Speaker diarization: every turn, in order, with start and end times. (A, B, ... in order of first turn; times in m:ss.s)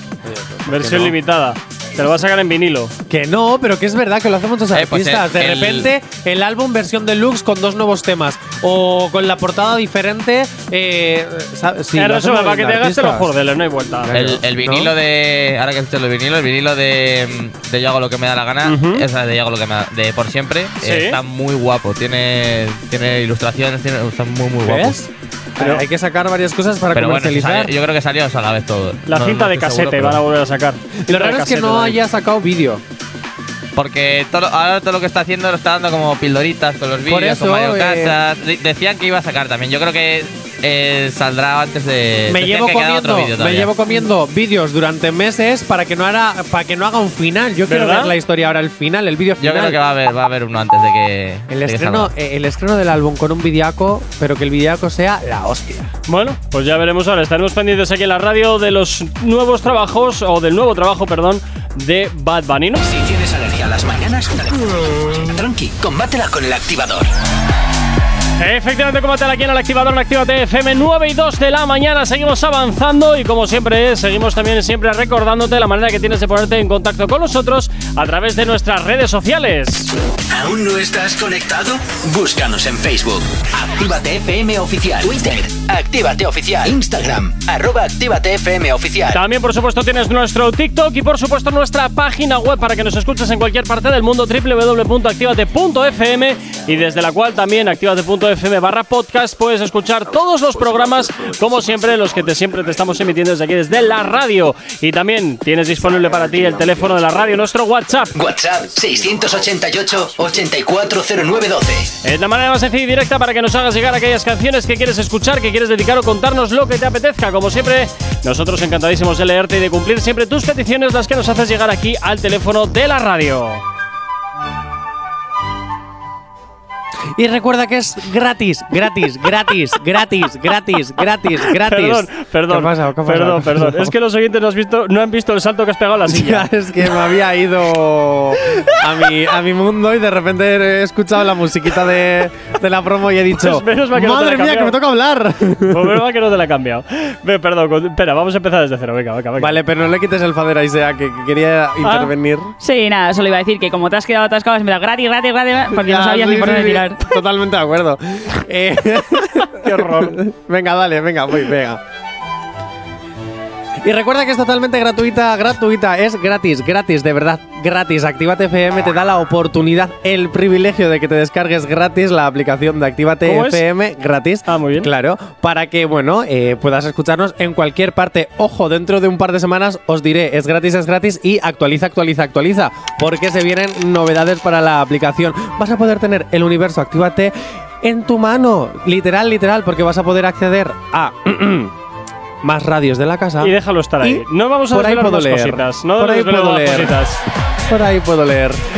0:00.2-0:01.2 A
0:00.6-0:02.9 B
0:03.1-0:13.3 A
0:04.7-0:05.9 C
0:11.9-0:14.1 B
0:14.0-0:14.9 A
0:14.1-0:24.9 C
0:18.6-0:19.0 B
0:20.8-0:21.2 B
0:24.6-0:27.7 A
0:26.9-0:30.2 C
0:29.1-0:32.0 B
0:31.1-0:32.8 A
0:33.8-0:43.7 C
0:37.1-0:38.2 A
0:42.3-0:49.8 A
0:47.7-0:48.1 B
0:49.4-0:52.1 C
0:51.5-0:55.9 A
0:56.1-1:02.8 B
1:02.8-1:07.1 D
1:08.4-1:19.9 B
1:20.3-1:29.2 D
1:29.1-1:48.2 B
1:48.1-1:51.9 D
1:52.0-2:03.6 B
2:07.2-2:13.9 A
2:11.5-2:16.5 B
2:16.1-2:26.0 A
2:23.3-2:24.8 B
2:25.6-2:29.6 B
2:29.4-2:32.5 A
2:31.8-2:32.1 B
2:32.6-2:37.0 E
2:35.7-2:41.8 A
2:39.6-2:40.2 B
2:43.8-3:11.7 A
2:53.2-2:53.6 B
2:54.5-2:54.9 B
3:12.4-3:17.0 A
3:13.4-3:17.2 B
3:17.6-3:18.6 A